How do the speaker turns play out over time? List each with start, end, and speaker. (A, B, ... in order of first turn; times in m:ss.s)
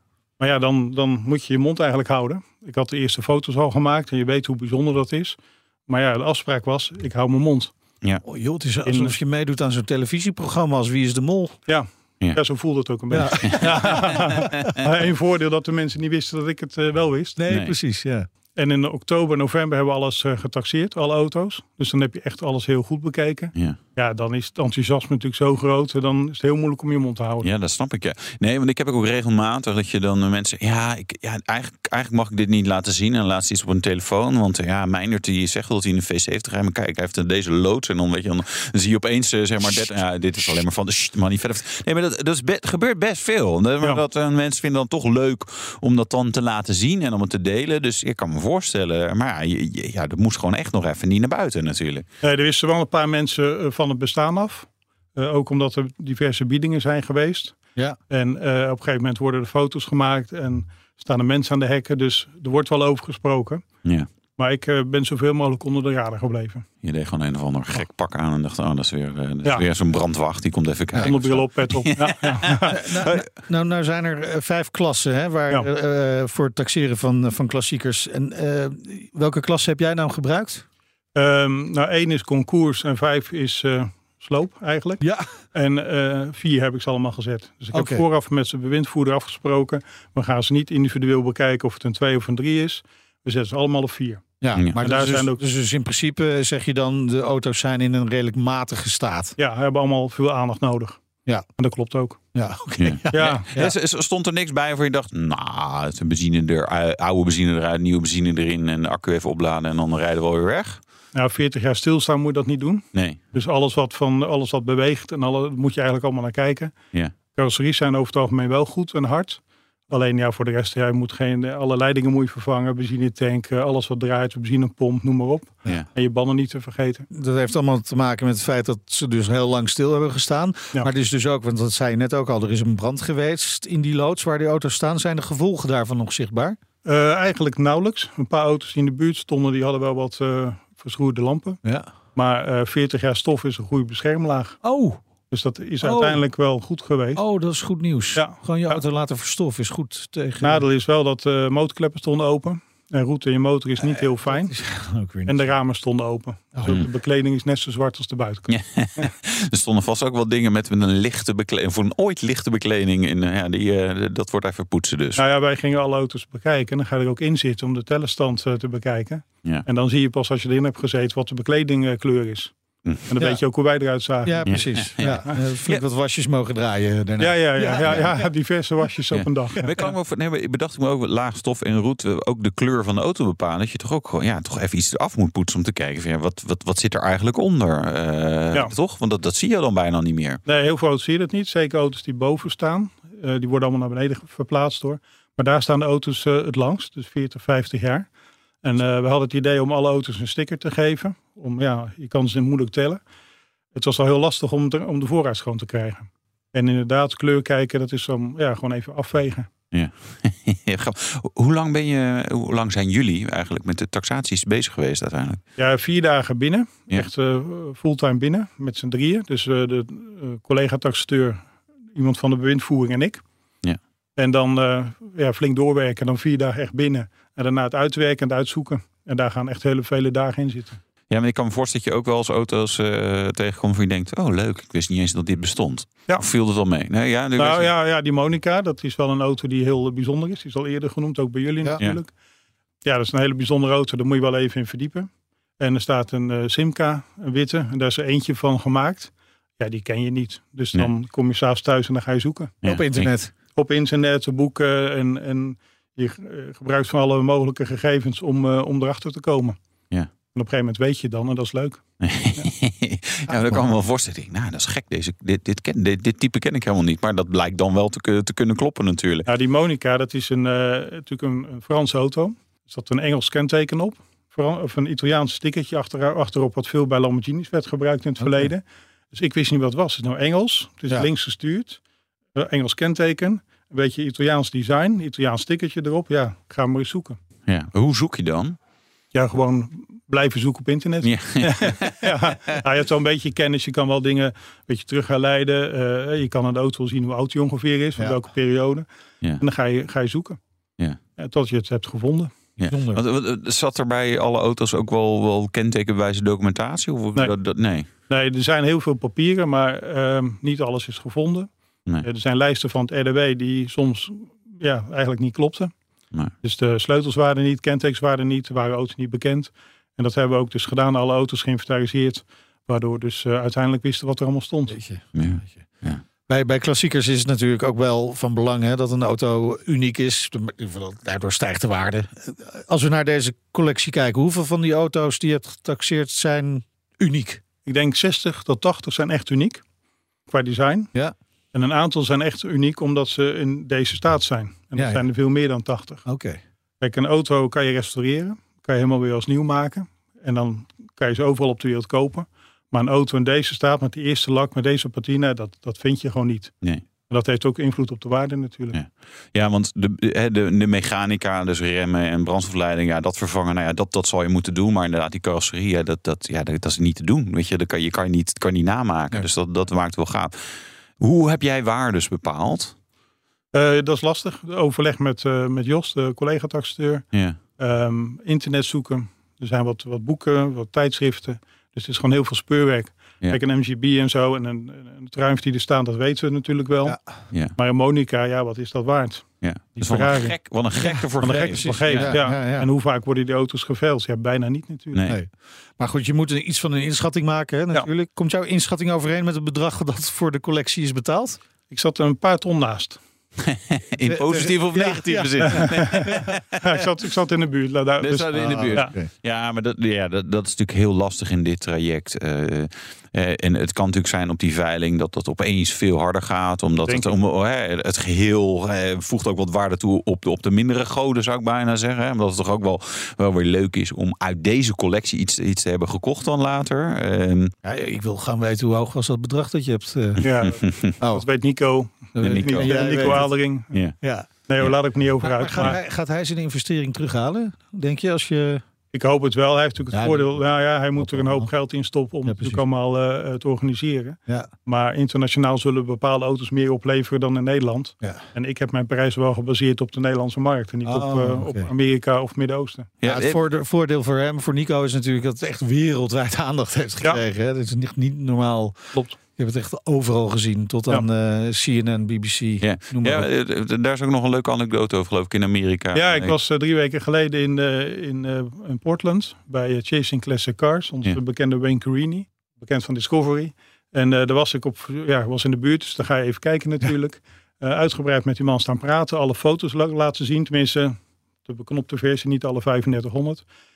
0:00.4-0:07.7 A
0:08.2-0:11.6 B
0:08.8-0:09.1 A
0:11.7-0:17.4 A
0:13.1-0:14.2 B
0:13.5-0:14.2 C
0:17.4-0:18.3 B
0:17.5-0:17.7 C
0:18.5-0:27.5 A
0:27.4-0:52.0 C
0:39.6-0:40.6 B
0:52.2-1:06.7 A
1:06.8-1:13.2 C
1:11.0-1:12.7 A
1:12.7-1:20.6 B
1:21.1-1:35.4 A
1:25.0-1:25.3 B
1:27.7-1:28.0 B
1:34.4-1:39.4 B
1:39.4-1:42.4 A
1:42.3-1:43.7 B
1:42.8-1:50.8 C
1:43.1-1:43.4 A
1:51.1-2:07.0 A
1:52.9-1:53.2 C
2:07.1-2:16.6 B
2:16.8-2:27.2 A
2:24.6-2:25.0 B
2:25.8-2:26.4 B
2:27.1-2:30.6 B
2:28.1-2:28.8 A
2:30.4-2:39.1 A
2:33.8-2:35.5 B
2:38.5-2:45.2 C
2:45.2-2:55.3 A
2:53.2-2:58.3 B
2:54.4-2:55.8 C
2:57.2-2:59.7 A
2:59.1-3:10.4 C
3:10.4-3:23.1 A
3:23.7-3:29.5 A
3:29.7-3:35.4 C
3:35.6-3:43.3 A
3:44.2-3:50.8 A
3:51.1-3:57.7 C
3:57.4-4:02.2 A
4:02.8-4:12.6 A
4:12.6-4:13.1 C
4:12.6-4:13.3 B
4:13.5-4:19.6 A
4:20.1-4:22.5 A
4:22.0-4:29.3 C
4:29.2-4:41.8 A
4:38.2-4:38.5 B
4:42.3-4:47.2 A
4:47.5-4:48.6 C
4:49.1-5:02.3 A
4:51.0-4:52.0 C
5:02.6-5:07.9 C
5:02.7-5:03.0 B
5:07.1-5:24.8 A
5:24.7-5:37.4 B
5:25.1-5:26.0 C
5:37.6-5:39.6 A
5:40.2-5:40.9 A
5:41.5-5:46.1 A
5:44.7-5:45.0 B
5:46.0-5:46.4 B
5:46.8-5:58.8 A
5:58.7-6:12.8 C
6:13.5-6:30.4 A
6:17.1-6:17.4 C
6:29.4-6:32.2 C
6:29.8-6:32.7 B
6:31.2-6:35.0 A
6:34.9-6:35.2 C
6:35.1-6:41.4 B
6:41.7-6:43.0 A
6:43.4-6:46.3 C
6:44.0-6:46.2 B
6:45.5-6:48.9 A
6:48.0-7:07.5 C
6:48.3-6:49.1 B
6:56.8-6:57.1 A
7:07.6-7:11.3 B
7:10.2-7:13.8 A
7:10.3-7:11.0 C
7:12.1-7:13.5 B
7:12.2-7:13.9 C
7:14.0-7:18.6 B
7:14.4-7:15.8 A
7:18.9-7:32.9 A
7:19.9-7:21.6 B
7:22.2-7:22.6 B
7:30.8-7:31.7 B
7:33.0-7:33.4 C
7:33.0-7:43.3 B
7:38.9-7:39.2 A
7:42.6-7:46.3 C
7:45.9-8:03.5 A